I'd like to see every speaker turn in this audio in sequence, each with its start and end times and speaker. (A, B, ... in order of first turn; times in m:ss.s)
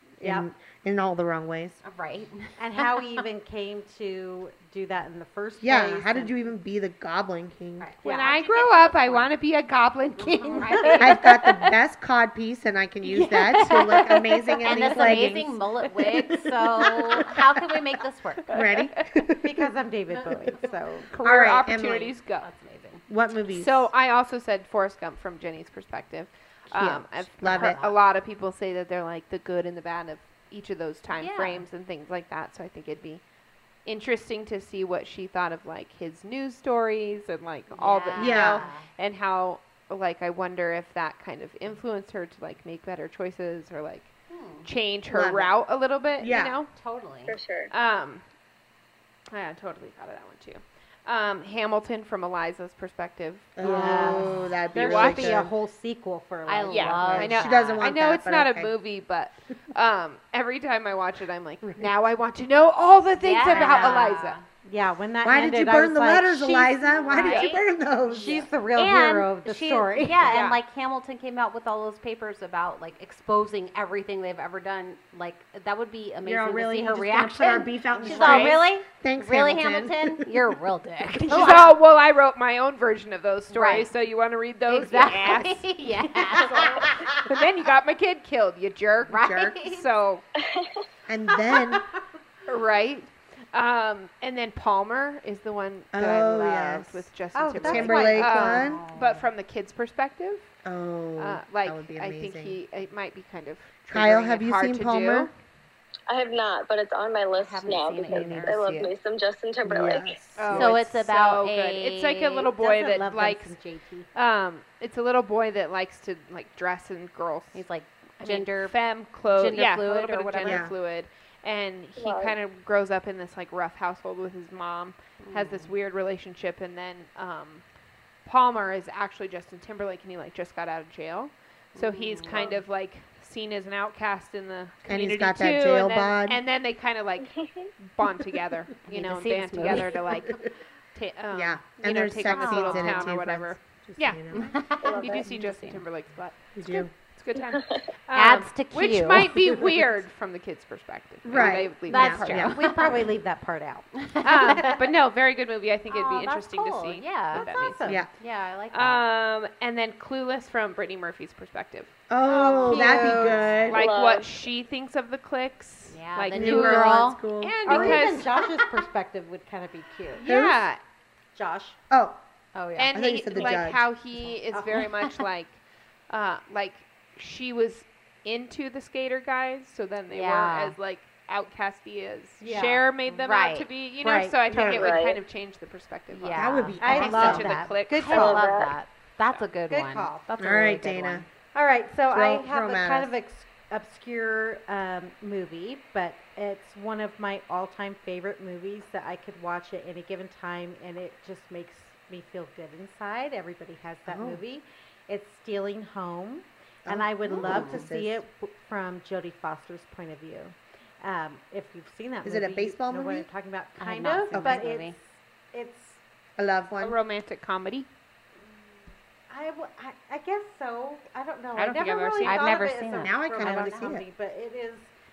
0:00.2-0:01.8 A
0:00.2-0:00.5 B
0:01.8-0:03.2 C
0:02.6-0:06.5 B
0:05.6-0:07.9 A
0:07.8-0:09.3 C
0:08.0-0:08.4 B
0:08.0-0:11.3 D
0:10.2-0:11.3 C
0:10.6-0:11.0 B
0:11.0-0:15.6 A
0:13.0-0:18.7 C
0:14.7-0:15.2 D
0:16.0-0:17.2 D
0:18.5-0:19.1 D
0:18.5-0:19.6 A
0:19.4-0:21.1 B
0:21.1-0:22.5 D
0:21.2-0:22.1 A
0:22.4-0:23.0 C
0:23.1-0:23.9 A
0:23.5-0:33.2 D
0:26.7-0:27.8 A
0:27.4-0:28.0 C
0:31.1-0:31.7 C
0:33.8-0:44.1 D
0:37.7-0:38.8 C
0:38.2-0:38.7 A
0:44.3-0:44.7 C
0:44.6-0:46.7 D
0:45.1-0:45.6 A
0:46.2-0:46.6 A
0:46.7-0:47.4 C
0:47.3-0:47.7 E
0:47.7-0:48.2 D
0:49.3-0:55.4 D
0:53.6-0:55.5 A
0:53.6-0:57.4 B
0:53.6-0:54.6 C
0:56.5-0:57.9 C
0:56.7-1:04.4 D
0:57.1-0:58.7 A
1:03.2-1:04.4 C
1:03.5-1:03.9 A
1:04.6-1:07.4 B
1:05.2-1:08.5 A
1:06.9-1:07.6 C
1:07.1-1:07.5 D
1:08.0-1:10.4 B
1:08.7-1:21.8 C
1:10.2-1:10.6 D
1:16.2-1:20.5 A
1:18.0-1:18.6 D
1:21.2-1:30.2 D
1:21.3-1:21.6 A
1:23.5-1:23.9 C
1:24.7-1:27.0 C
1:29.1-1:29.8 C
1:29.1-1:29.6 A
1:30.4-1:30.8 E
1:31.1-1:31.9 A
1:32.5-1:40.5 D
1:35.9-1:38.8 A
1:37.3-1:38.7 B
1:38.4-1:39.2 C
1:40.6-1:42.6 A
1:41.2-1:45.3 D
1:43.9-1:45.3 A
1:46.1-1:50.2 E
1:47.4-1:48.7 C
1:48.1-1:48.9 A
1:49.6-1:50.9 A
1:50.4-1:53.5 D
1:50.5-1:52.5 C
1:52.6-1:54.1 B
1:54.1-1:57.6 D
1:57.5-2:00.7 C
1:58.2-2:07.6 D
2:00.4-2:00.7 A
2:02.0-2:02.3 E
2:05.2-2:05.7 C
2:08.2-2:32.7 D
2:11.7-2:12.6 C
2:14.8-2:16.4 A
2:17.4-2:17.6 E
2:18.9-2:20.0 C
2:19.7-2:20.4 A
2:21.3-2:24.6 A
2:22.3-2:23.1 C
2:24.3-2:25.8 C
2:24.8-2:25.3 E
2:26.6-2:27.0 A
2:28.1-2:29.7 C
2:31.2-2:32.5 A
2:31.4-2:33.1 C
2:31.9-2:33.9 B
2:34.0-2:34.9 C
2:34.2-2:38.0 D
2:34.4-2:34.7 B
2:35.9-2:37.5 C
2:37.4-2:38.0 B
2:38.1-2:39.0 C
2:38.7-2:41.9 D
2:42.1-2:43.9 A
2:42.2-2:43.6 B
2:42.4-2:43.7 C
2:42.5-2:48.5 D
2:43.7-2:44.3 E
2:45.9-2:47.2 C
2:46.3-2:48.2 A
2:47.6-2:50.3 B
2:50.1-2:50.8 D
2:50.2-2:50.7 A
2:51.3-2:51.8 B
2:51.9-2:52.2 A
2:52.5-2:53.1 C
2:52.8-3:08.4 D
2:52.9-2:53.9 A
2:54.1-2:55.2 C
2:54.5-2:54.9 B
3:00.1-3:00.8 C
3:02.4-3:02.8 B
3:03.0-3:03.7 C
3:04.0-3:04.9 B
3:04.6-3:05.2 E
3:06.1-3:11.3 C
3:06.3-3:07.7 A
3:06.8-3:08.6 B
3:08.1-3:08.7 E
3:09.7-3:10.3 B
3:10.4-3:11.3 A
3:11.5-3:36.0 B
3:12.1-3:13.1 A
3:24.1-3:24.4 A
3:26.8-3:28.2 A
3:27.3-3:27.8 C
3:32.2-3:33.3 A
3:33.8-3:35.0 C
3:34.3-3:34.7 A
3:36.4-3:37.0 A
3:36.8-3:37.9 D
3:39.3-3:44.9 B
3:41.6-3:42.5 D
3:42.2-3:44.0 C
3:43.0-3:44.0 A